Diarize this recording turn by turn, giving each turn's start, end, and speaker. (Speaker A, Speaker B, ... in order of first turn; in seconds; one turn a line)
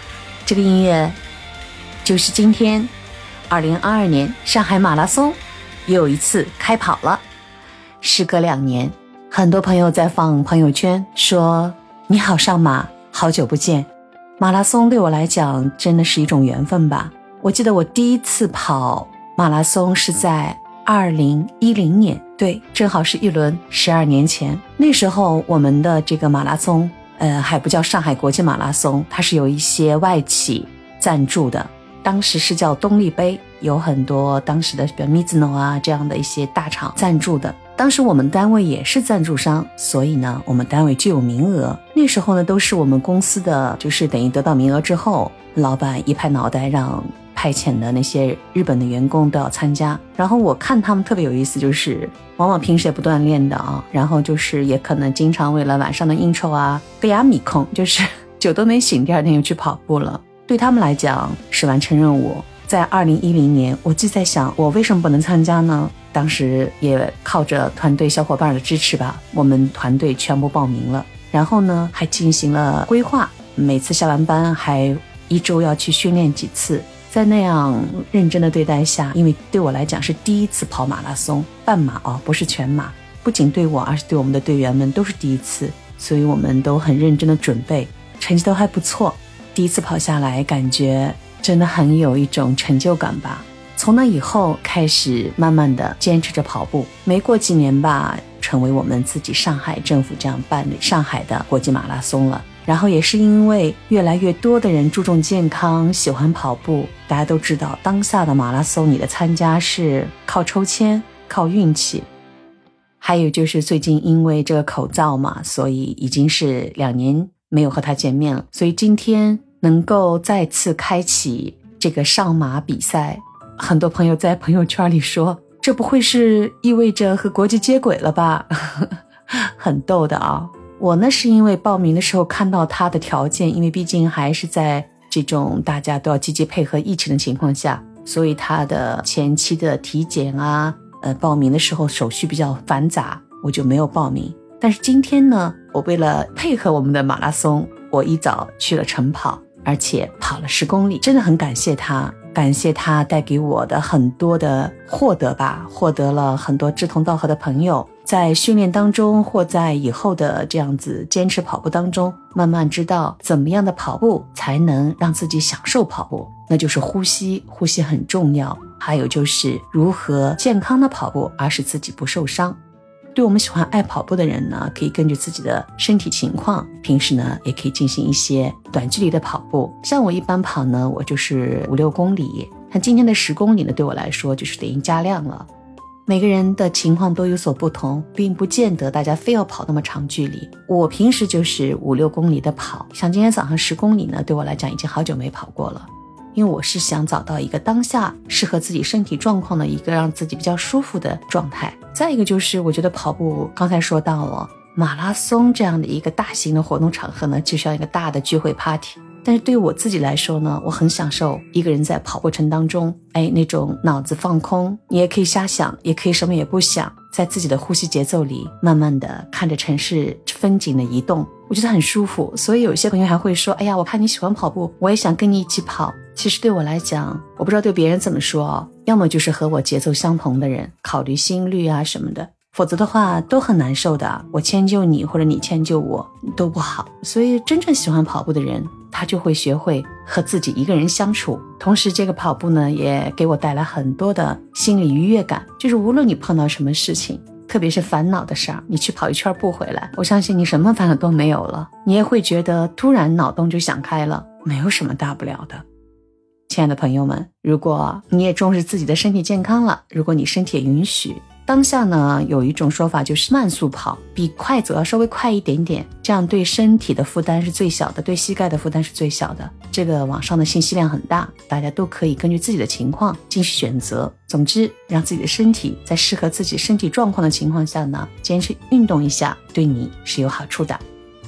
Speaker A: 0.5-1.2
Speaker A: 2.0-2.9
Speaker A: 3.5-7.2
Speaker A: 8.0-112.1
Speaker A: 113.0-172.6
Speaker A: 173.2-185.5
Speaker A: 186.1-255.6
Speaker A: 256.5-280.8